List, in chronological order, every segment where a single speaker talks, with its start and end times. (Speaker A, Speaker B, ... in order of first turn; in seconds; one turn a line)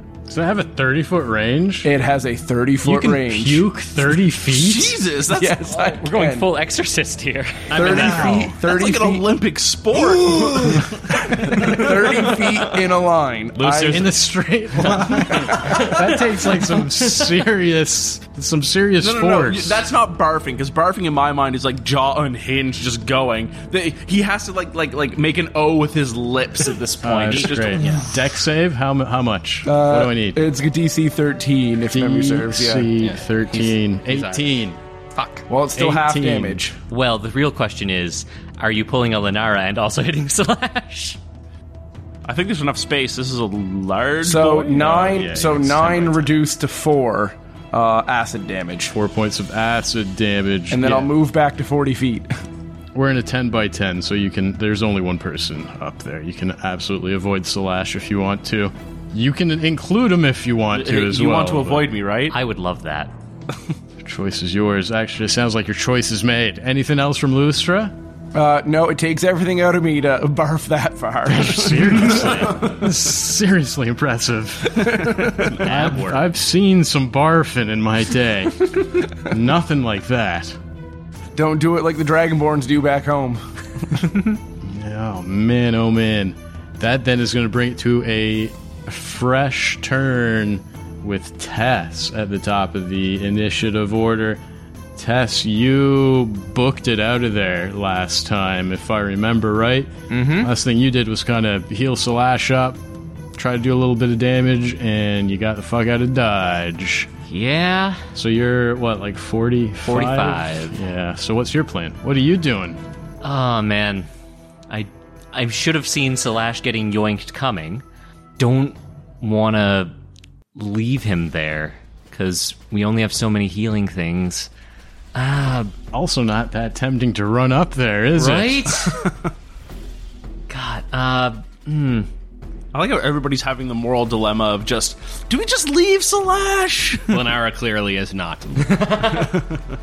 Speaker A: 0.3-1.9
Speaker B: 1.8-3.7
Speaker A: 2.8-5.0
Speaker C: 4.4-5.7
Speaker B: 5.3-6.5
Speaker D: 5.7-8.5
Speaker E: 7.7-8.5
Speaker B: 7.7-9.2
Speaker C: 8.0-11.9
Speaker B: 9.9-14.1
Speaker D: 13.6-13.9
Speaker A: 13.7-19.8
Speaker B: 15.3-15.8
Speaker D: 15.6-16.9
Speaker C: 19.0-28.1
Speaker A: 27.0-30.4
Speaker D: 27.3-28.1
Speaker B: 29.6-32.9
Speaker A: 31.9-34.8
Speaker E: 33.0-34.6
Speaker E: 35.1-35.4
Speaker B: 35.5-36.7
Speaker A: 35.7-36.6
Speaker D: 36.9-41.2
Speaker C: 42.2-45.0
Speaker B: 44.2-48.9
Speaker A: 44.8-46.3
Speaker A: 48.9-51.1
Speaker B: 50.7-52.3
Speaker A: 52.9-61.9
Speaker C: 60.7-62.4
Speaker D: 62.3-63.1
Speaker A: 64.0-67.9
Speaker B: 68.3-72.6
Speaker A: 71.2-80.6
Speaker B: 74.9-75.5
Speaker E: 75.6-76.2
Speaker D: 75.7-76.1
Speaker B: 81.3-83.4
Speaker A: 84.6-94.4
Speaker A: 95.0-102.8
Speaker D: 100.1-100.5
Speaker A: 103.4-107.1
Speaker D: 107.3-108.0
Speaker A: 108.1-112.8
Speaker D: 109.8-110.8
Speaker D: 113.2-114.1
Speaker D: 114.7-117.8
Speaker D: 118.4-119.9
Speaker D: 120.5-124.5
Speaker D: 125.1-125.7
Speaker A: 125.9-128.9
Speaker D: 128.2-129.0
Speaker D: 130.5-132.1
Speaker C: 132.7-137.2
Speaker E: 137.1-138.9
Speaker D: 138.6-139.4